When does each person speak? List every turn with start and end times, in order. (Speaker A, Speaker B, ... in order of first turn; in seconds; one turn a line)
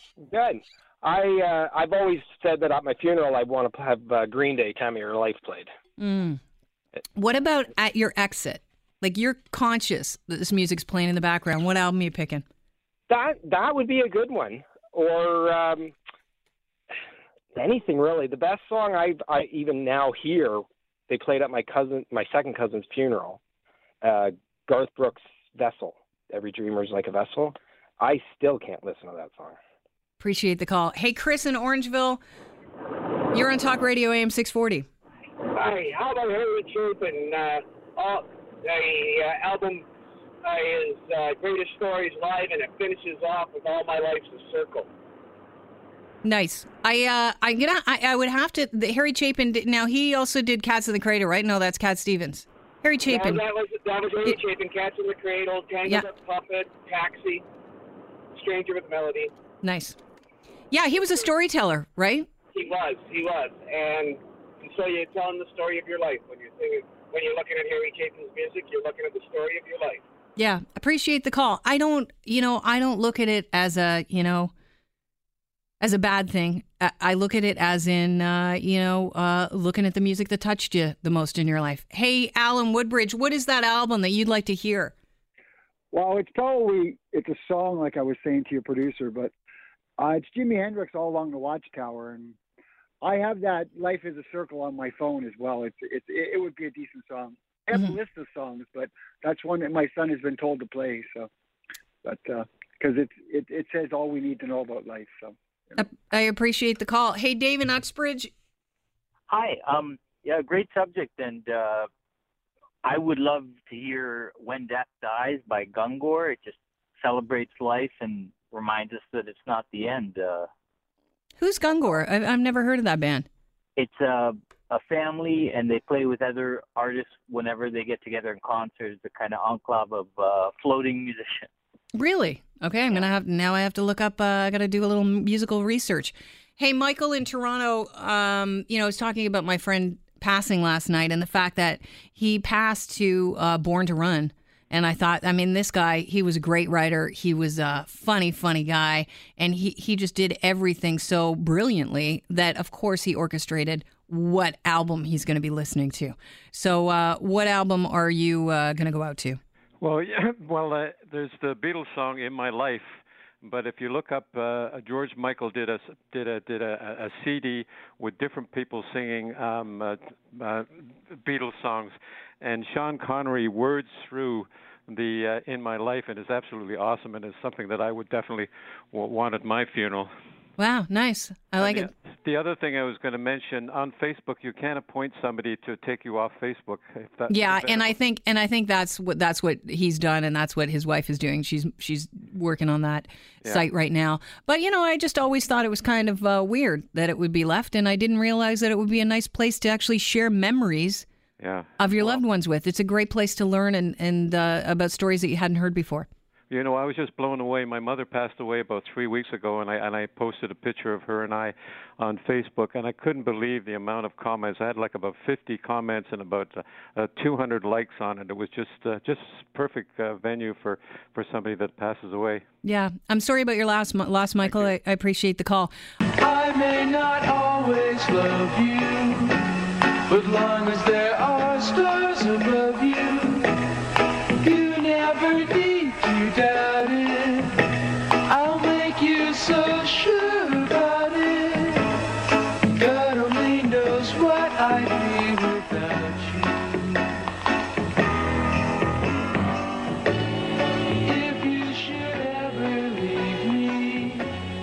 Speaker A: 0.3-5.7
Speaker B: 6.0-6.4
Speaker B: 7.2-12.4
Speaker A: 13.1-15.9
Speaker A: 17.5-23.4
Speaker A: 24.0-29.6
Speaker B: 30.2-32.2
Speaker B: 33.3-34.9
Speaker C: 35.5-39.8
Speaker C: 40.5-44.8
Speaker B: 46.2-53.4
Speaker C: 53.1-57.4
Speaker C: 58.4-59.3
Speaker B: 59.6-60.0
Speaker B: 60.7-62.3
Speaker C: 62.5-70.0
Speaker B: 70.4-74.5
Speaker B: 75.8-84.9
Speaker D: 85.9-89.3
Speaker D: 90.0-92.4
Speaker D: 93.0-101.3
Speaker D: 102.0-105.7
Speaker B: 105.8-108.3
Speaker E: 109.3-111.9
Speaker E: 112.8-120.5
Speaker B: 121.4-123.3
Speaker E: 123.8-131.5
Speaker B: 131.9-159.4
Speaker F: 159.8-162.8
Speaker F: 163.4-180.1
Speaker B: 180.6-181.9
Speaker F: 181.6-187.9
Speaker B: 187.3-201.0
Speaker F: 201.4-202.2
Speaker B: 201.8-206.1
Speaker F: 206.5-222.4
Speaker B: 222.6-225.7
Speaker G: 226.2-229.4
Speaker G: 230.1-233.5
Speaker G: 234.4-237.5
Speaker G: 238.3-241.9
Speaker G: 242.7-247.0
Speaker G: 251.1-254.3